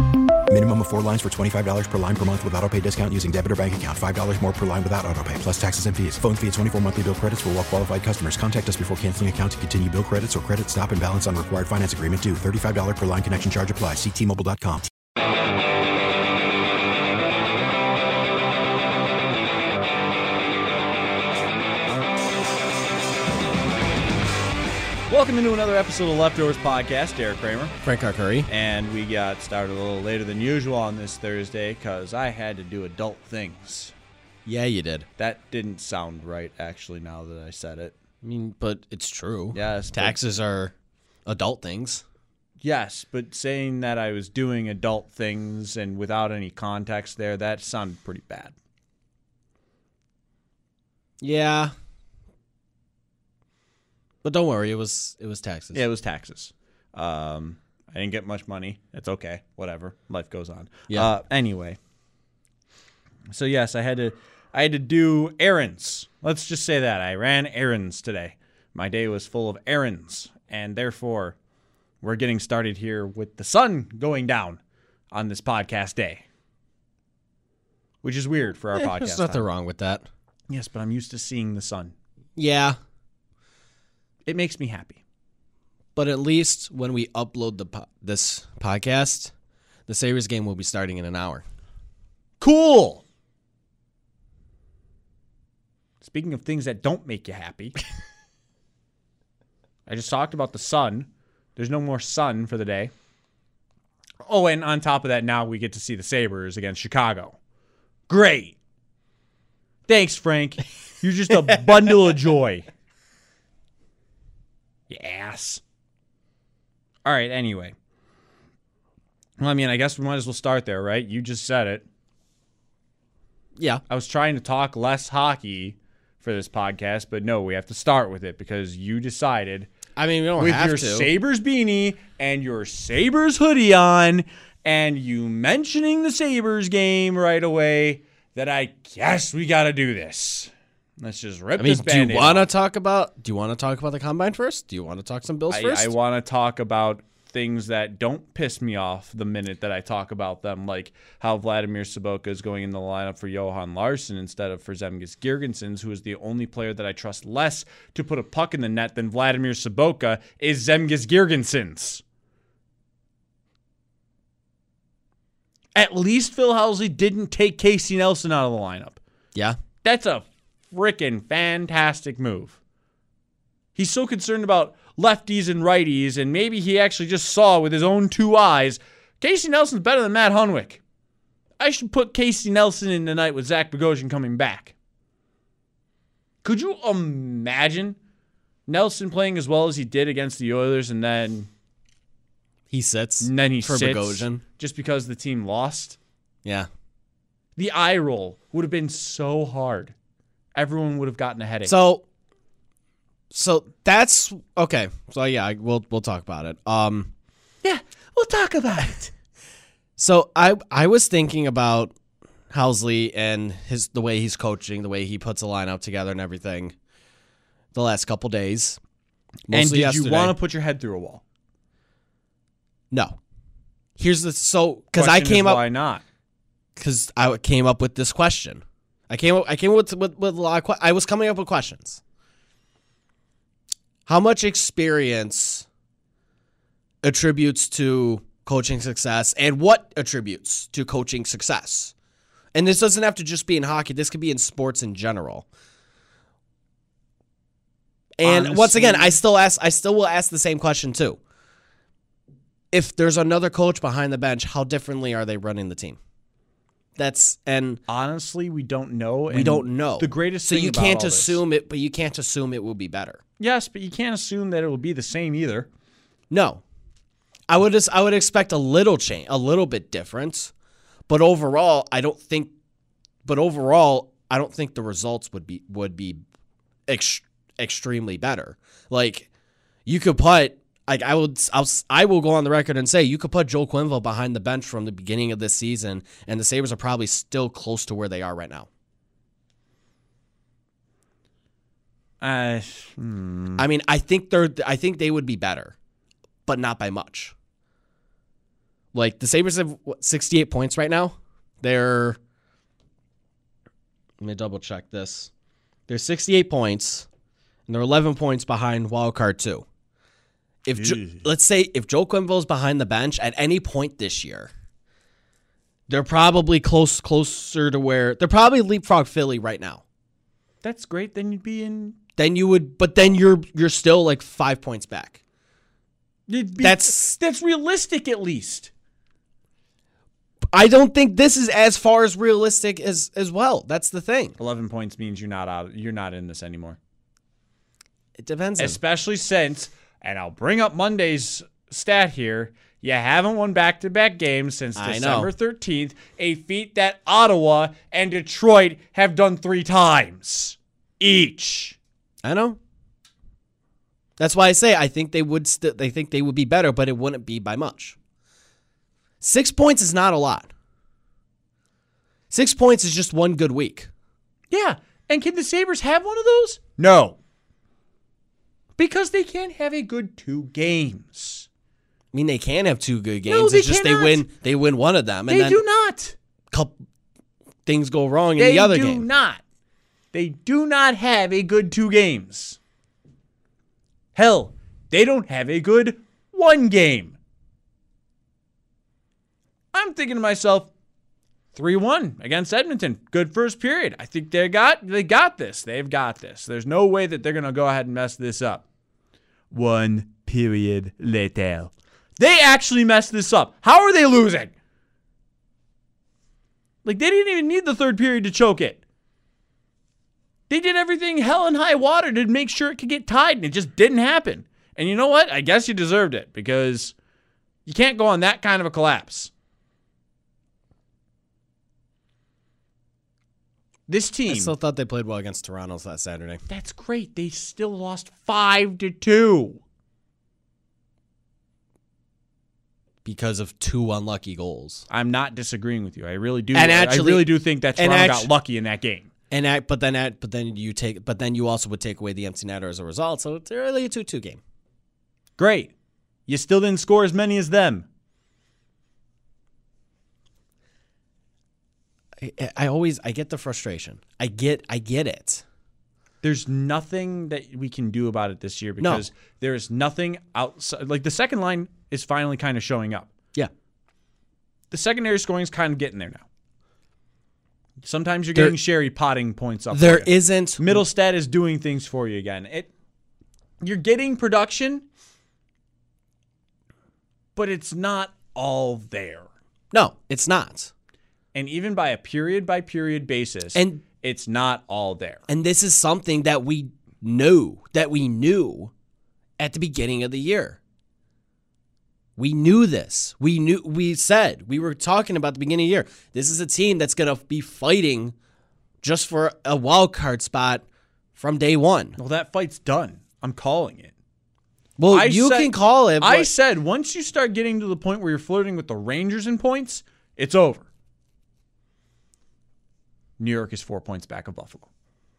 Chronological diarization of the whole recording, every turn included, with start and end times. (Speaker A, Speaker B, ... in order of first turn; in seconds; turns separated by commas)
Speaker A: 0.5-14.9, Speaker B: 25.1-27.8, Speaker C: 27.8-28.5, Speaker B: 28.5-33.9, Speaker C: 34.5-35.1, Speaker B: 35.2-37.9, Speaker C: 38.2-40.7, Speaker B: 39.5-40.2, Speaker C: 41.3-42.0, Speaker B: 42.6-48.5, Speaker C: 51.2-51.7, Speaker C: 54.2-55.8, Speaker B: 55.7-61.8, Speaker B: 63.3-71.4, Speaker B: 72.0-74.6, Speaker B: 75.1-76.2, Speaker B: 78.0-79.5, Speaker C: 78.8-80.0, Speaker B: 80.5-82.0, Speaker C: 82.4-82.8, Speaker B: 84.3-85.0, Speaker C: 86.0-89.3, Speaker C: 89.9-91.4, Speaker B: 92.4-93.0, Speaker B: 96.0-97.8, Speaker B: 99.9-102.9, Speaker B: 104.2-107.4, Speaker B: 108.1-108.5, Speaker B: 109.9-112.7, Speaker B: 114.9-115.6, Speaker B: 117.0-117.8, Speaker B: 119.4-121.9, Speaker C: 123.6-123.8, Speaker B: 123.9-129.7, Speaker C: 130.0-131.1, Speaker B: 130.4-142.5, Speaker C: 141.6-145.9, Speaker B: 145.5-162.0, Speaker B: 165.8-169.0, Speaker B: 169.8-172.6, Speaker B: 173.8-180.8, Speaker B: 181.6-184.7, Speaker B: 186.4-188.0, Speaker B: 188.7-191.5, Speaker C: 192.7-194.4, Speaker B: 193.2-196.0, Speaker B: 197.6-199.9, Speaker B: 200.6-201.8, Speaker C: 201.6-202.0, Speaker C: 203.3-207.1, Speaker B: 207.6-209.1, Speaker C: 210.0-211.9, Speaker C: 212.5-216.8, Speaker C: 217.7-218.8, Speaker C: 219.5-220.4, Speaker B: 219.5-221.2, Speaker C: 222.9-223.2, Speaker C: 224.0-225.7, Speaker B: 224.9-226.0, Speaker C: 226.8-232.0, Speaker C: 234.1-235.7, Speaker C: 237.0-241.9, Speaker C: 242.6-245.5, Speaker C: 248.2-251.2, Speaker B: 248.2-249.2, Speaker C: 252.7-256.0, Speaker C: 257.0-257.8, Speaker B: 257.9-261.4, Speaker C: 259.3-263.2, Speaker B: 263.4-265.7, Speaker C: 266.3-266.6, Speaker C: 267.5-270.5, Speaker C: 271.1-272.5, Speaker C: 273.2-276.2, Speaker C: 276.9-279.3, Speaker C: 279.9-288.7, Speaker B: 292.2-293.6, Speaker C: 293.6-295.8, Speaker C: 296.5-297.3, Speaker C: 298.9-302.2, Speaker C: 304.2-305.3, Speaker C: 305.9-307.1, Speaker C: 307.7-309.6, Speaker C: 310.6-314.5, Speaker B: 310.8-311.3, Speaker C: 315.9-319.8, Speaker B: 320.6-322.0, Speaker C: 322.2-325.2, Speaker B: 326.3-328.7, Speaker C: 326.6-327.1, Speaker C: 330.5-334.4, Speaker B: 334.4-336.8, Speaker C: 338.2-338.8, Speaker B: 338.6-351.8, Speaker C: 344.8-345.3, Speaker C: 352.2-352.6, Speaker C: 354.2-358.0, Speaker C: 359.2-360.5, Speaker C: 362.3-363.9, Speaker B: 364.5-367.2, Speaker B: 368.8-371.5, Speaker C: 372.1-375.6, Speaker B: 373.3-374.2, Speaker B: 375.3-376.2, Speaker C: 377.7-379.1, Speaker B: 378.4-379.4, Speaker B: 380.1-382.6, Speaker B: 384.1-387.2, Speaker B: 389.7-390.7, Speaker B: 391.5-398.6, Speaker B: 399.5-404.5, Speaker B: 406.8-408.8, Speaker B: 410.5-416.9, Speaker B: 417.7-419.3, Speaker B: 423.9-424.6, Speaker C: 424.3-426.4, Speaker B: 426.5-429.6, Speaker C: 433.1-434.9, Speaker B: 434.9-439.1, Speaker C: 436.5-438.3, Speaker C: 439.3-444.4, Speaker B: 445.4-445.7, Speaker B: 446.3-447.9, Speaker C: 452.2-455.4, Speaker B: 456.2-463.1, Speaker C: 458.8-459.1, Speaker B: 464.7-466.2, Speaker B: 467.8-472.7, Speaker C: 469.7-470.8, Speaker B: 473.6-474.9, Speaker B: 477.4-479.3, Speaker C: 479.7-480.7, Speaker B: 481.3-485.2, Speaker C: 483.6-483.8, Speaker C: 485.3-488.7, Speaker C: 489.4-490.6, Speaker C: 492.2-498.1, Speaker C: 498.8-500.6, Speaker C: 501.2-502.0, Speaker B: 502.0-503.9, Speaker C: 504.8-506.3, Speaker B: 504.9-510.7, Speaker B: 513.2-514.7